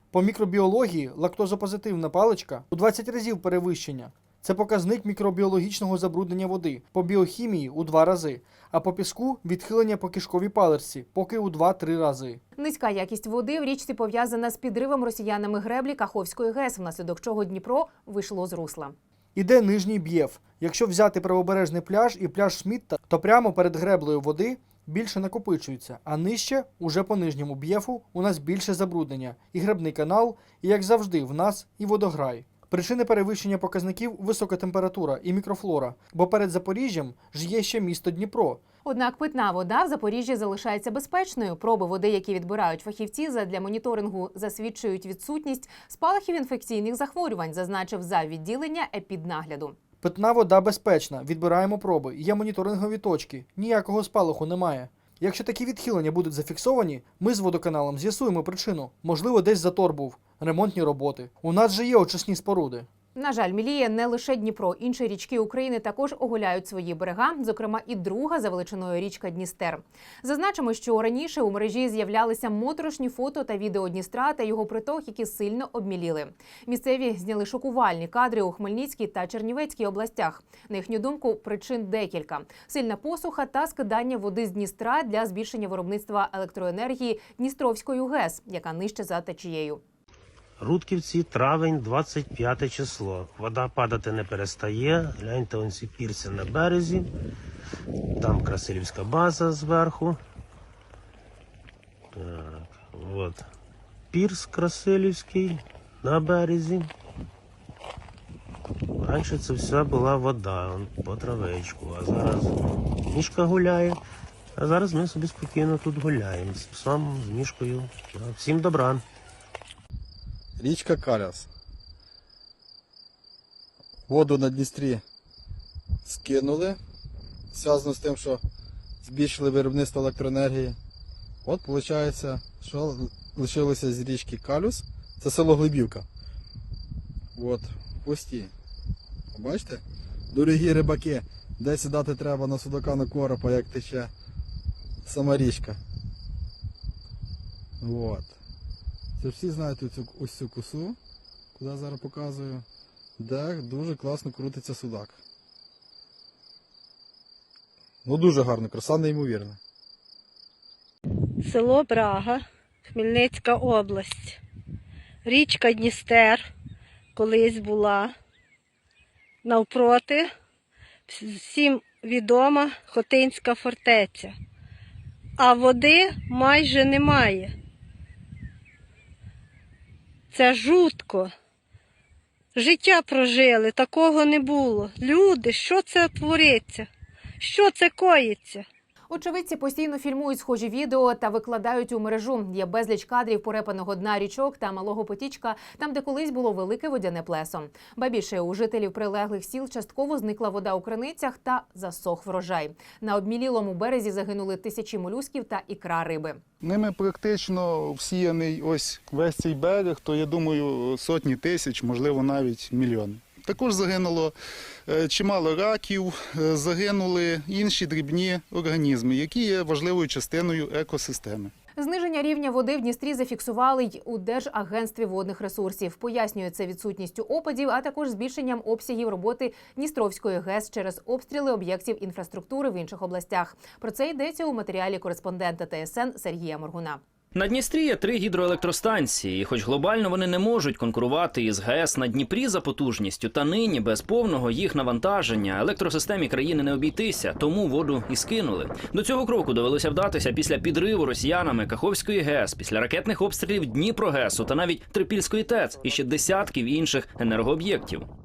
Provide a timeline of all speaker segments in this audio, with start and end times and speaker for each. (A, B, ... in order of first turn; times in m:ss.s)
0:00.1-0:12.4 A
0:12.6-0:19.0 B
0:19.4-0:38.6 A
0:38.8-0:49.8 B
0:50.0-1:02.9 A
1:03.2-1:29.8 B
1:30.6-1:37.1 C
1:38.2-1:40.2 C
1:42.2-1:43.5 C
1:44.1-1:46.9 C
1:49.0-1:52.5 C
1:53.1-1:54.0 C
1:54.6-1:59.0 C
2:00.6-2:01.5 D
2:04.1-2:05.0 D
2:06.0-2:06.8 D
2:07.5-2:08.4 D
2:09.0-2:10.8 D
2:11.4-2:16.1 D
2:17.4-2:18.5 D
2:19.3-2:24.1 D
2:25.0-2:25.8 D
2:27.8-2:28.3 D
2:29.2-2:31.0 D
2:31.6-2:32.6 D
2:33.2-2:35.2 D
2:38.0-2:39.6 D
2:41.4-2:42.4 E
2:42.9-2:44.4 E
2:45.2-2:46.4 E
2:47.2-2:48.1 E
2:49.4-2:50.3 E
2:51.1-2:54.3 E
2:55.4-2:57.5 E
3:00.3-3:01.3 E
3:02.6-3:06.9 E
3:07.4-3:08.6 E
3:09.1-3:26.4 B
3:26.6-3:34.4 F
3:34.9-3:41.5 F
3:41.8-3:57.0 B
3:57.4-4:18.1 G